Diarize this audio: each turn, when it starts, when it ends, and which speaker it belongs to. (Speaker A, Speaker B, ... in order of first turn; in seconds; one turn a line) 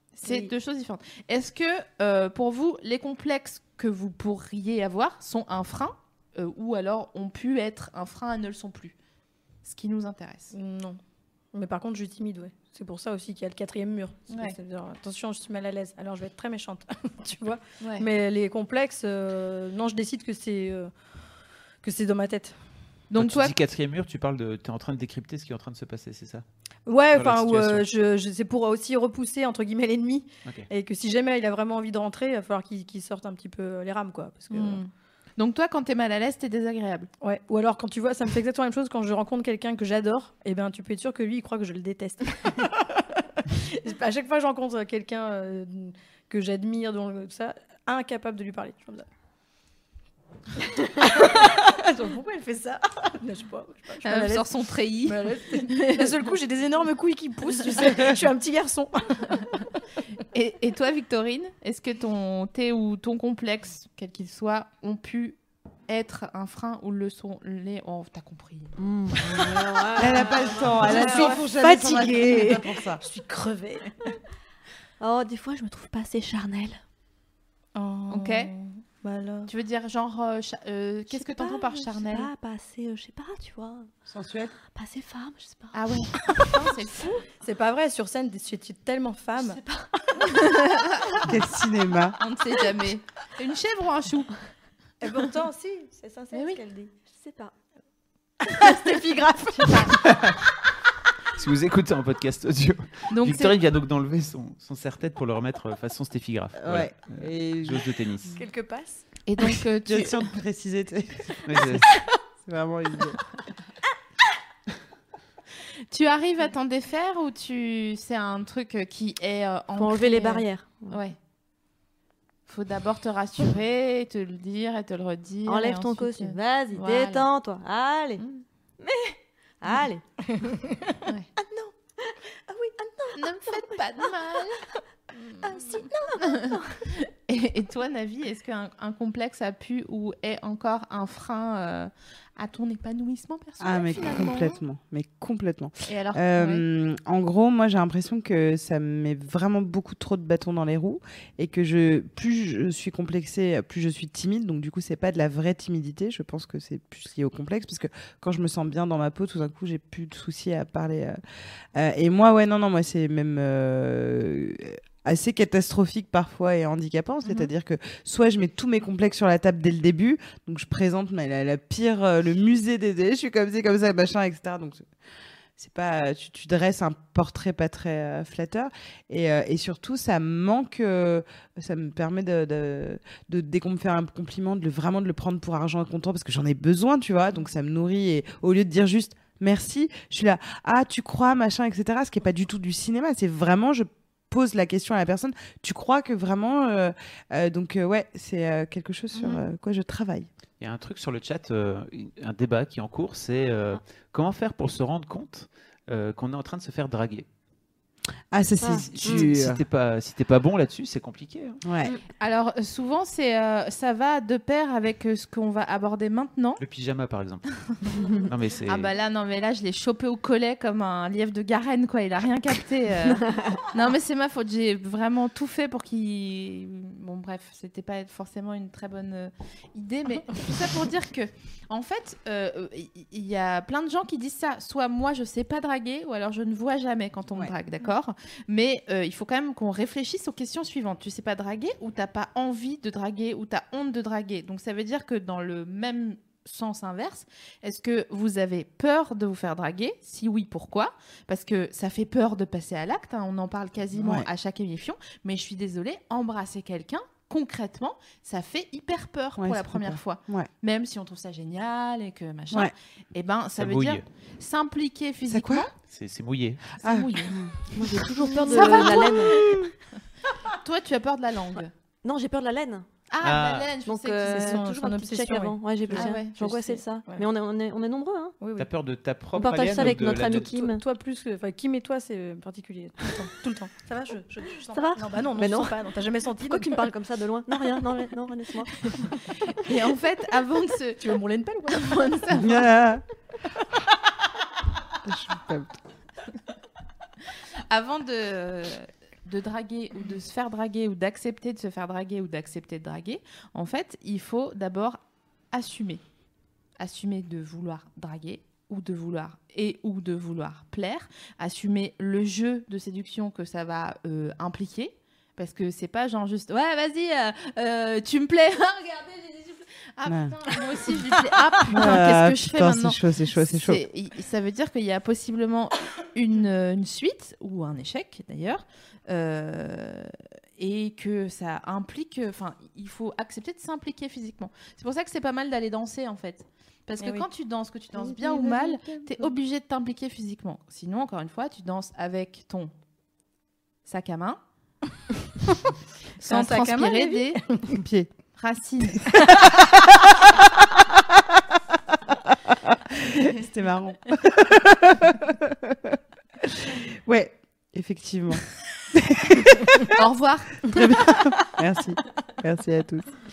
Speaker A: 0.1-8.9
Speaker B: 0.2-0.5
Speaker A: 9.6-10.5
Speaker B: 10.5-11.0
Speaker B: 11.5-20.9
Speaker A: 14.3-14.6
Speaker A: 17.8-18.1
Speaker B: 21.8-22.5
Speaker A: 23.1-23.5
Speaker C: 23.2-26.4
Speaker B: 26.9-34.8
Speaker C: 27.1-27.9
Speaker A: 34.5-37.1
Speaker B: 37.2-49.1
Speaker B: 50.6-54.5
Speaker A: 54.0-56.2
Speaker B: 55.0-59.5
Speaker A: 57.8-58.0
Speaker A: 60.3-68.7
Speaker D: 68.8-71.3
Speaker E: 70.0-73.0
Speaker B: 70.5-74.1
Speaker A: 71.0-71.3
Speaker D: 75.0-76.8
Speaker B: 77.7-79.5
Speaker A: 78.1-78.5
Speaker A: 79.5-82.3
Speaker D: 81.1-83.9
Speaker E: 84.1-84.5
Speaker D: 84.7-85.8
Speaker A: 85.7-87.2
Speaker B: 86.4-86.7
Speaker B: 87.3-89.6
Speaker D: 89.4-89.9
Speaker A: 90.4-91.2
Speaker E: 91.2-92.2
Speaker A: 92.2-94.3
Speaker B: 95.0-96.9
Speaker A: 96.3-96.6
Speaker D: 97.1-97.5
Speaker B: 98.4-100.1
Speaker C: 99.9-100.4
Speaker C: 101.3-108.4
Speaker A: 103.1-103.6
Speaker E: 106.6-107.9
Speaker B: 108.3-109.0
Speaker A: 109.2-110.3
Speaker E: 109.8-111.8
Speaker C: 111.4-111.8
Speaker E: 112.4-113.2
Speaker A: 115.9-121.2
Speaker D: 119.8-121.0
Speaker A: 122.5-127.3
Speaker D: 125.5-128.2
Speaker D: 128.8-130.0
Speaker B: 130.3-131.0
Speaker D: 131.4-134.1
Speaker A: 133.1-134.6
Speaker D: 135.4-136.8
Speaker A: 135.6-144.6
Speaker E: 143.6-161.2
Speaker A: 145.9-146.6
Speaker E: 161.7-174.8
Speaker E: 175.6-200.3
Speaker C: 200.6-207.3
Speaker E: 208.3-209.6
Speaker D: 208.6-209.3
Speaker C: 208.7-211.6
Speaker E: 211.6-211.9
Speaker A: 212.2-216.6
Speaker C: 216.6-217.4
Speaker C: 218.1-218.9
Speaker A: 218.1-265.7
Speaker E: 253.9-254.3
Speaker E: 259.4-260.5
Speaker C: 263.5-264.1
Speaker E: 265.3-265.7
Speaker C: 265.9-266.7
Speaker A: 266.8-267.4
Speaker E: 266.8-267.7
Speaker D: 267.7-269.3
Speaker B: 268.3-269.1
Speaker A: 268.4-269.5
Speaker E: 269.2-269.7
Speaker A: 270.5-271.7
Speaker D: 272.0-272.9
Speaker A: 273.1-274.6
Speaker C: 273.2-273.7
Speaker D: 273.8-278.4
Speaker B: 274.2-277.3
Speaker A: 275.9-276.3
Speaker B: 278.4-278.7
Speaker C: 278.6-280.5
Speaker D: 279.3-280.8
Speaker B: 279.8-286.9
Speaker D: 284.7-285.8
Speaker D: 286.4-289.1
Speaker A: 289.6-292.7
Speaker B: 291.0-292.0
Speaker E: 292.3-293.0
Speaker E: 295.0-295.8
Speaker A: 297.7-305.0
Speaker A: 305.5-306.0
Speaker A: 306.8-342.7
Speaker E: 320.1-320.3
Speaker E: 321.7-323.8
Speaker B: 337.0-337.2
Speaker E: 338.0-339.1
Speaker A: 343.8-344.4
Speaker A: 346.2-347.4
Speaker B: 346.2-347.8
Speaker E: 347.7-348.1
Speaker A: 348.3-349.3
Speaker E: 349.1-351.4
Speaker E: 352.1-360.0
Speaker A: 359.9-360.9
Speaker E: 360.6-363.1